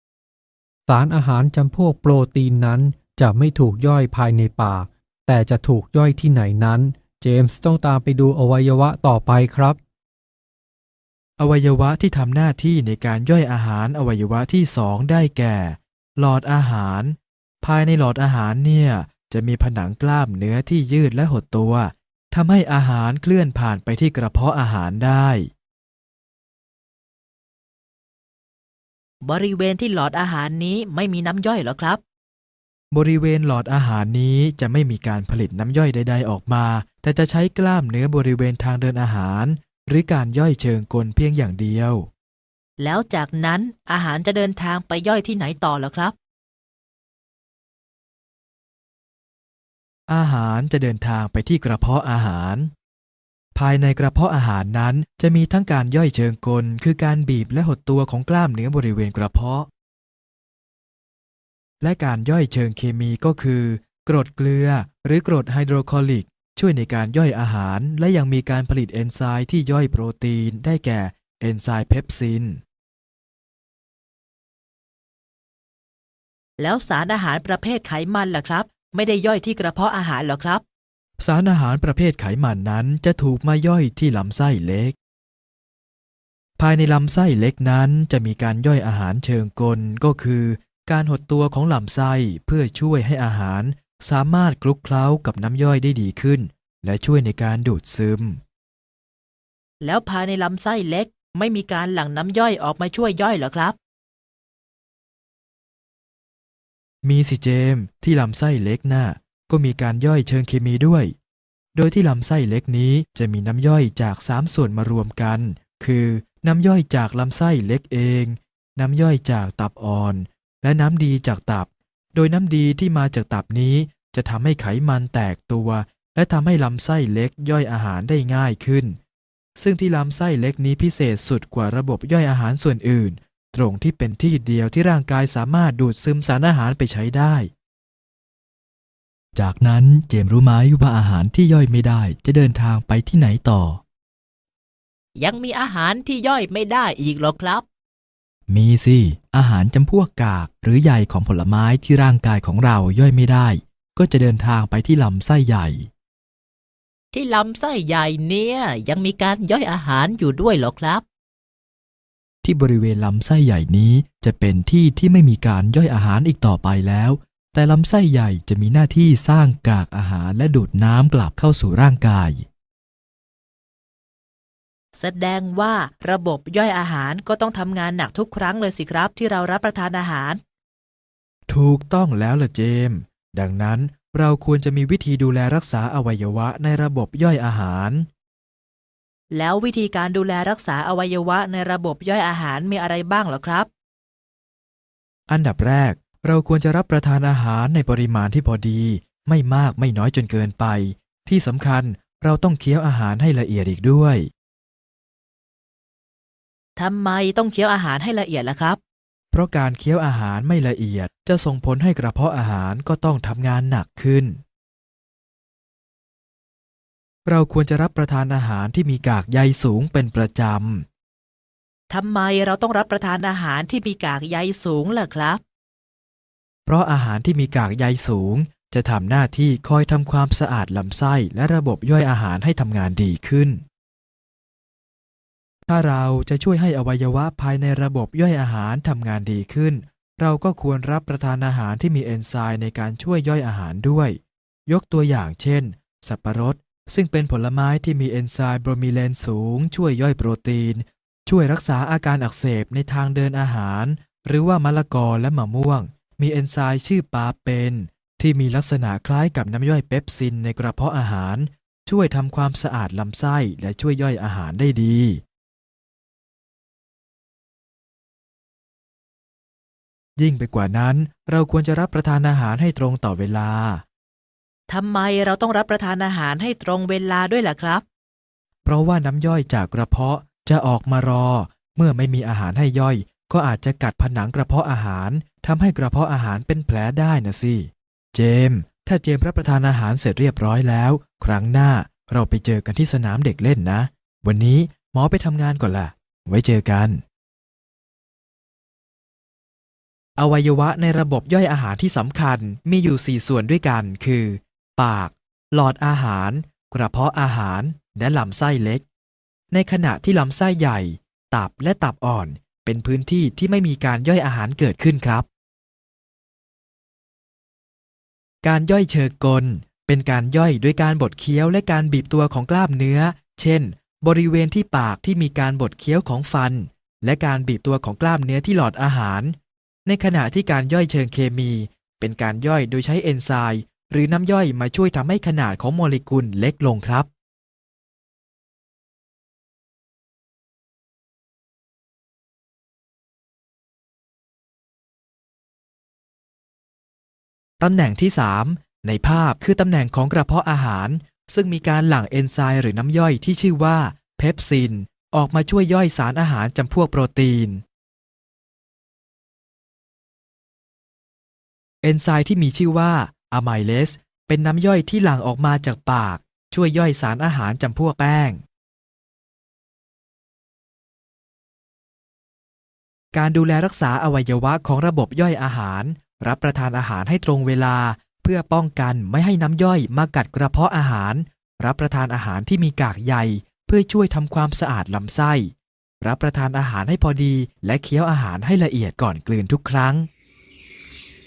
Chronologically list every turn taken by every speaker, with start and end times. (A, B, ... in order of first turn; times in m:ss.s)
0:00.9-0:09.8 A
0:11.4-0:25.5 B
0:29.2-0:32.0 C
0:32.9-0:42.1 B
0:42.8-0:46.2 C
0:50.1-0:52.7 B
0:53.6-0:59.7 B
1:01.8-1:12.6 B
1:16.6-1:20.6 C
1:21.2-1:25.0 B
1:26.6-1:38.4 B
1:39.8-1:43.8 C
1:47.0-1:51.1 B
1:51.8-2:09.0 B
2:09.6-2:17.5 B
2:19.4-2:23.8 B
2:25.2-2:27.6 C
2:28.5-2:35.9 B
2:37.1-2:41.0 C
2:42.4-2:52.5 B
2:55.0-3:00.4 C
3:01.5-3:08.1 B
3:09.3-3:13.7 C
3:15.3-3:24.3 B
3:26.8-3:28.8 C
3:29.3-3:34.4 B
3:37.3-3:40.9 B
3:41.9-3:45.4 C
3:46.7-3:53.6 B
3:55.7-4:25.2 B
4:30.2-4:33.8 B
4:34.7-4:37.8 C
4:38.6-4:57.0 B
5:00.2-5:08.8 B
5:09.5-5:15.3 B
5:18.4-5:37.1 B
5:47.6-5:57.6 B
6:01.8-6:08.4 B
6:13.1-6:30.1 B